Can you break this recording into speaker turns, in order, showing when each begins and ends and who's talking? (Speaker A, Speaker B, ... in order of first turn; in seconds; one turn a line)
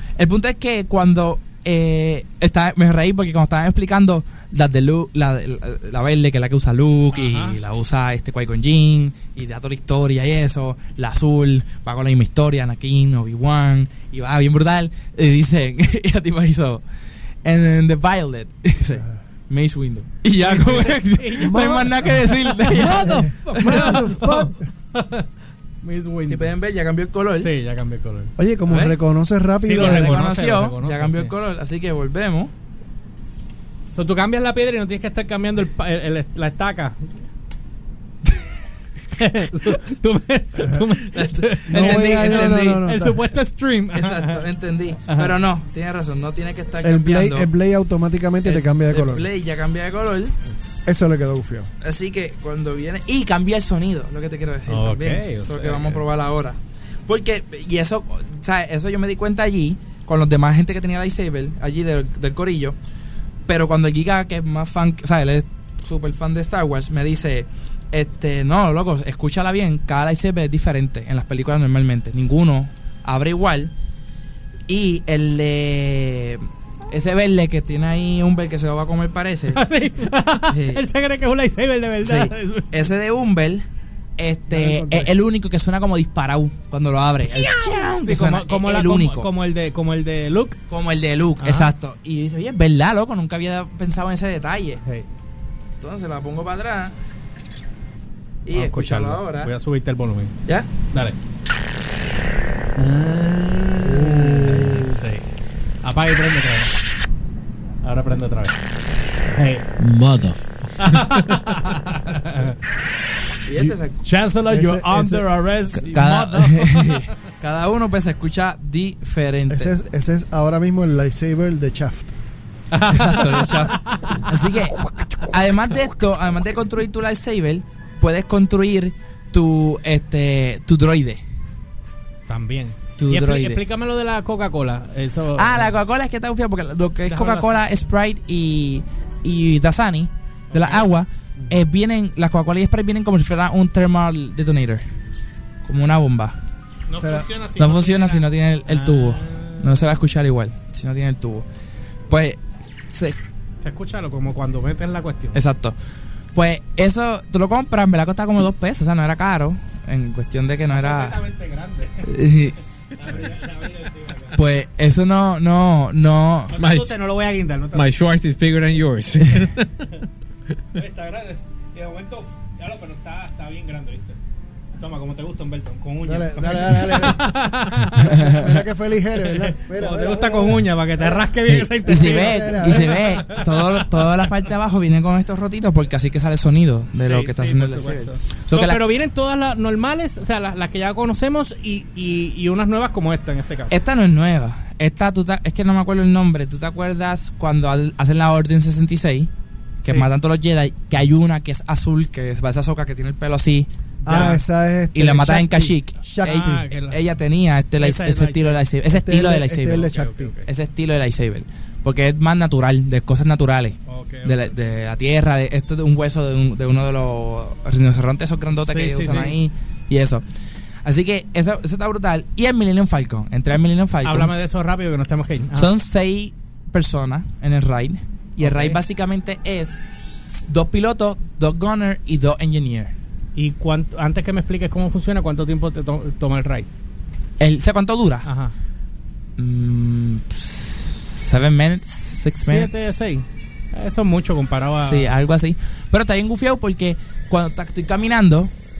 Speaker A: 0.2-16.8
Speaker B: 7.1-7.6
Speaker A: 17.4-24.0
Speaker B: 20.4-22.8
Speaker C: 21.4-22.2
Speaker D: 22.7-23.6
Speaker C: 23.0-24.6
Speaker B: 23.6-25.3
Speaker B: 25.8-26.5
Speaker A: 26.3-27.5
Speaker B: 27.4-28.3
Speaker C: 28.4-30.2
Speaker A: 28.7-29.0
Speaker B: 29.6-31.3
Speaker A: 29.7-32.5
Speaker B: 33.9-37.0
Speaker B: 39.1-44.4
Speaker A: 41.1-42.9
Speaker C: 41.7-43.2
Speaker A: 43.9-47.5
Speaker B: 45.1-45.3
Speaker C: 46.8-49.3
Speaker A: 48.4-50.4
Speaker C: 50.8-51.7
Speaker A: 51.8-62.8
Speaker B: 54.7-56.0
Speaker A: 63.5-73.7
Speaker A: 74.7-79.6
Speaker B: 79.5-82.7
Speaker A: 80.5-80.8
Speaker A: 82.0-83.6
Speaker A: 84.2-89.3
Speaker C: 84.5-85.1
Speaker B: 87.2-90.6
Speaker A: 90.7-94.8
Speaker B: 91.4-91.7
Speaker A: 95.8-96.9
Speaker A: 98.4-99.5
Speaker B: 98.5-100.3
Speaker B: 102.8-105.2
Speaker C: 103.8-105.0
Speaker B: 105.8-106.7
Speaker B: 107.8-108.5
Speaker B: 109.3-109.6
Speaker D: 109.8-111.2
Speaker B: 110.8-112.5
Speaker A: 113.5-114.0
Speaker B: 114.0-117.1
Speaker C: 114.5-115.2
Speaker A: 115.8-119.7
Speaker C: 119.5-122.1
Speaker B: 122.7-124.2
Speaker A: 122.9-131.2
Speaker B: 132.3-135.7
Speaker A: 133.0-133.6
Speaker A: 135.3-144.8
Speaker B: 137.1-137.7
Speaker B: 140.5-140.8
Speaker A: 145.6-146.3
Speaker B: 146.9-149.8
Speaker C: 147.0-147.3
Speaker A: 147.6-151.4
Speaker A: 152.1-153.2
Speaker B: 153.6-155.4
Speaker A: 155.3-155.7
Speaker A: 156.3-161.1
Speaker B: 160.7-162.1
Speaker A: 162.0-162.6
Speaker B: 162.9-164.4
Speaker A: 164.3-166.6
Speaker B: 166.5-167.9
Speaker D: 166.6-166.9
Speaker D: 167.7-169.8
Speaker B: 170.7-174.2
Speaker B: 174.8-178.1
Speaker C: 176.1-177.3
Speaker C: 177.9-181.3
Speaker A: 177.9-178.5
Speaker B: 179.2-184.2
Speaker A: 181.5-188.8
Speaker C: 181.8-183.0
Speaker B: 187.0-193.7
Speaker A: 193.7-199.3
Speaker A: 199.8-203.7
Speaker B: 204.0-204.4
Speaker C: 204.1-206.6
Speaker A: 204.9-209.9
Speaker B: 206.2-207.0
Speaker B: 207.8-208.6
Speaker C: 208.9-210.3
Speaker B: 209.8-210.5
Speaker A: 210.5-220.2
Speaker B: 213.9-214.5
Speaker B: 218.6-219.4
Speaker A: 220.8-224.3
Speaker B: 224.0-225.7
Speaker A: 225.5-232.9
Speaker B: 228.4-228.8
Speaker B: 233.3-236.7
Speaker A: 237.4-238.3
Speaker B: 238.2-238.5
Speaker A: 239.4-242.7
Speaker B: 242.4-245.1
Speaker A: 244.8-248.5